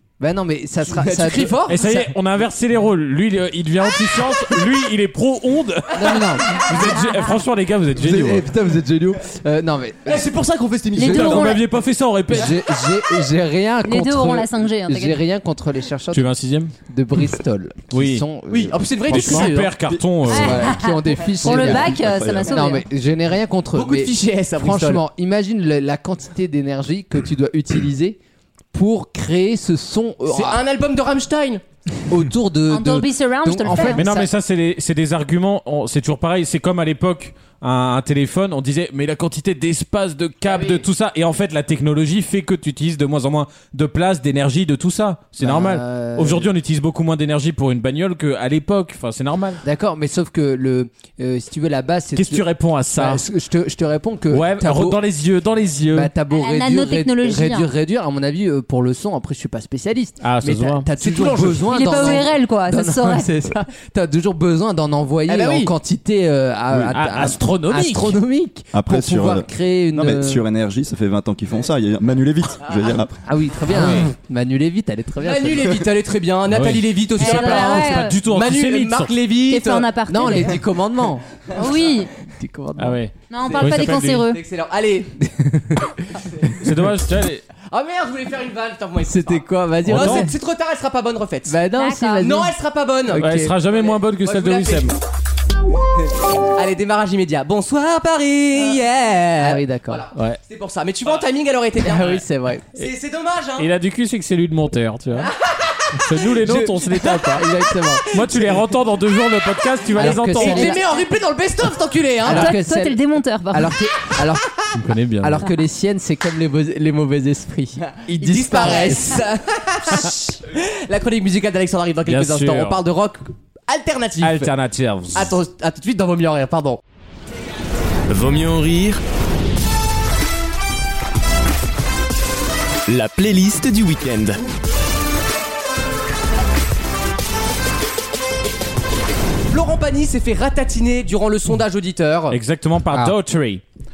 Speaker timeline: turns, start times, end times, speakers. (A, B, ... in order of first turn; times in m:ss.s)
0:00.2-0:02.0 A
0:00.8-0:02.0 B
0:01.7-0:08.5 C
0:05.9-0:06.8 A
0:07.9-0:11.6 A
0:10.1-0:11.6 B
0:11.0-0:11.6 D
0:11.0-0:12.6 C
0:12.3-0:16.3 A
0:13.8-0:15.2 D
0:16.1-0:16.7 C
0:16.9-0:19.0 A
0:17.9-0:18.2 C
0:18.5-0:19.8 B
0:19.1-0:20.7 C
0:20.3-0:22.9 D
0:20.3-0:28.2 A
0:21.7-0:22.6 E
0:23.8-0:25.0 B
0:28.7-0:30.6 A
0:30.3-0:31.6 B
0:32.1-0:34.3 A
0:32.7-0:34.0 D
0:33.9-0:49.6 C
0:40.4-0:40.8 B
0:45.4-0:46.5 A
0:49.6-0:55.0 A
0:52.2-0:53.3 C
0:54.3-0:56.1 C
0:55.9-1:10.4 A
0:56.3-0:57.7 D
1:00.2-1:00.9 C
1:01.0-1:02.3 B
1:01.7-1:03.3 D
1:05.3-1:05.7 B
1:06.9-1:08.2 C
1:08.7-1:13.2 E
1:12.7-1:13.0 B
1:13.2-1:15.8 A
1:13.7-1:14.1 C
1:15.2-1:20.4 B
1:16.5-1:19.2 C
1:17.2-1:18.2 D
1:19.5-1:20.6 D
1:20.1-1:21.2 A
1:21.6-1:22.1 D
1:22.2-1:23.0 A
1:22.8-1:24.3 C
1:23.3-1:24.4 D
1:23.4-1:25.1 B
1:25.2-1:26.0 A
1:26.6-1:27.4 C
1:27.7-1:31.6 B
1:29.0-1:30.3 A
1:29.9-1:30.3 C
1:31.5-1:32.6 A
1:31.8-1:32.3 D
1:32.2-1:35.0 B
1:33.1-1:33.6 A
1:33.2-1:35.0 C
1:36.6-1:43.7 B
1:38.6-1:38.8 A
1:39.4-1:40.0 A
1:40.1-1:40.4 C
1:41.8-1:42.7 A
1:43.6-1:45.3 C
1:45.2-1:48.4 B
1:45.9-1:47.5 C
1:47.3-1:48.1 A
1:48.1-1:50.8 C
1:50.0-1:50.8 A
1:50.0-1:52.5 B
1:50.5-1:51.0 D
1:52.2-1:53.0 A
1:52.3-1:53.8 D
1:53.5-1:54.5 A
1:54.7-1:55.5 C
1:55.2-1:59.2 A
1:58.1-2:04.5 B
2:02.1-2:02.8 C
2:04.2-2:05.3 C
2:05.1-2:06.8 B
2:08.1-2:09.0 F
2:12.9-2:14.4 F
2:19.5-2:22.4 B
2:22.3-2:23.6 C